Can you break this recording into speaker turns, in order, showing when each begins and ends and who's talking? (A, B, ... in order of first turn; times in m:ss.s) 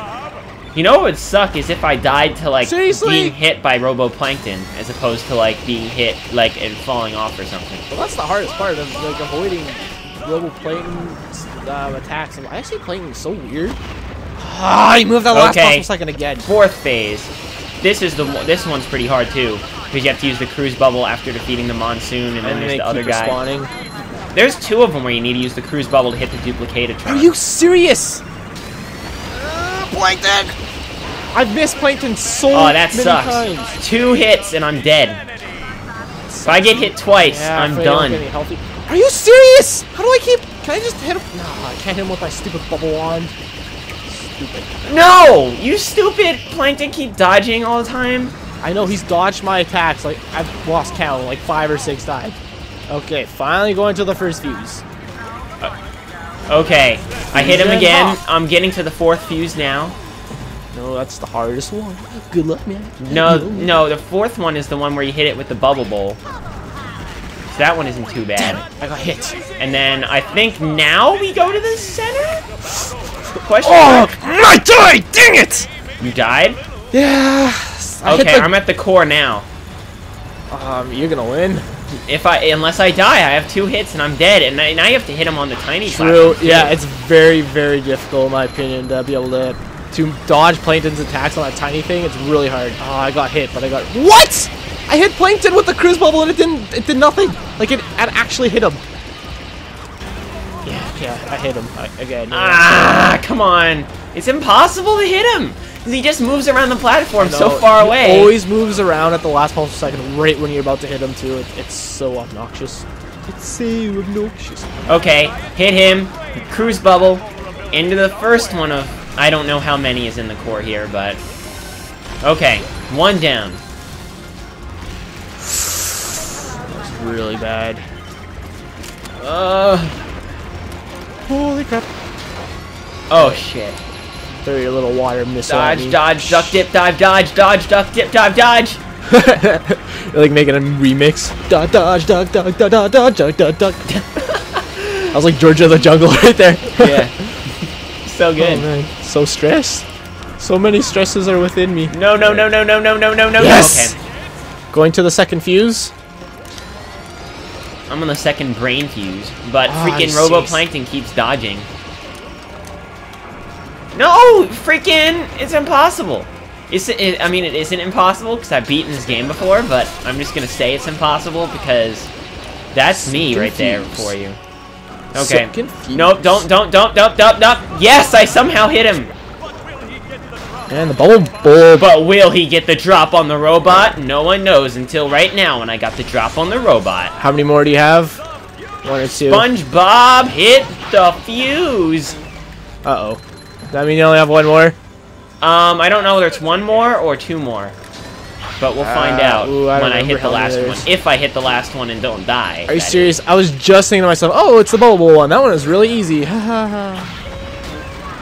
0:00.7-0:07.8 A
0:02.6-0:03.4 B
0:07.9-0:13.8 B
0:14.4-0:16.5 B
0:15.3-0:15.9 A
0:16.4-0:23.4 A
0:22.4-0:23.7 B
0:24.3-0:27.3 A
0:27.0-0:28.2 B
0:29.4-0:30.6 B
0:31.3-0:33.8 B
0:32.5-0:35.2 A
0:36.3-0:43.3 B
0:36.5-0:38.2 A
0:44.1-0:44.9 B
0:44.8-0:48.3 A
0:48.6-0:54.8 B
0:56.5-1:00.0 A
0:57.3-0:58.2 B
1:00.7-1:03.8 B
1:03.0-1:06.2 A
1:07.5-1:08.6 A
1:08.4-1:09.4 B
1:09.6-1:12.4 A
1:13.4-1:14.1 A
1:13.6-1:15.7 B
1:16.0-1:16.6 A
1:16.9-1:18.6 B
1:18.0-1:19.5 A
1:20.5-1:21.8 B
1:22.1-1:26.8 A
1:25.9-1:38.8 B
1:40.6-1:43.2 B
1:42.3-1:48.4 A
1:47.2-1:55.0 B
1:54.9-2:01.2 A
2:02.2-2:03.6 A
2:06.7-2:07.8 B
2:09.2-2:10.0 A
2:11.3-2:11.9 B
2:13.1-2:13.8 A
2:13.2-2:13.4 B
2:14.4-2:16.6 B
2:15.5-2:18.8 A
2:19.1-2:23.9 B
2:23.9-2:25.2 A
2:25.1-2:27.3 B
2:26.8-2:27.1 A
2:28.0-2:28.7 A
2:28.4-2:29.9 B
2:30.4-2:32.5 B
2:31.9-2:34.0 A
2:33.4-2:34.0 B
2:34.7-2:35.9 B
2:37.9-2:41.7 A
2:39.7-2:40.6 B
2:43.9-2:52.1 A
2:52.7-2:54.4 A
2:52.9-2:54.1 B
2:55.1-2:56.4 B
2:55.2-2:59.1 A
3:00.7-3:01.9 B
3:01.8-3:07.1 A
3:07.2-3:08.2 B
3:08.8-3:09.5 B
3:09.3-3:12.2 A
3:12.8-3:14.8 B
3:15.4-3:17.8 A
3:18.6-3:23.1 A
3:18.8-3:20.9 B
3:22.7-3:27.2 B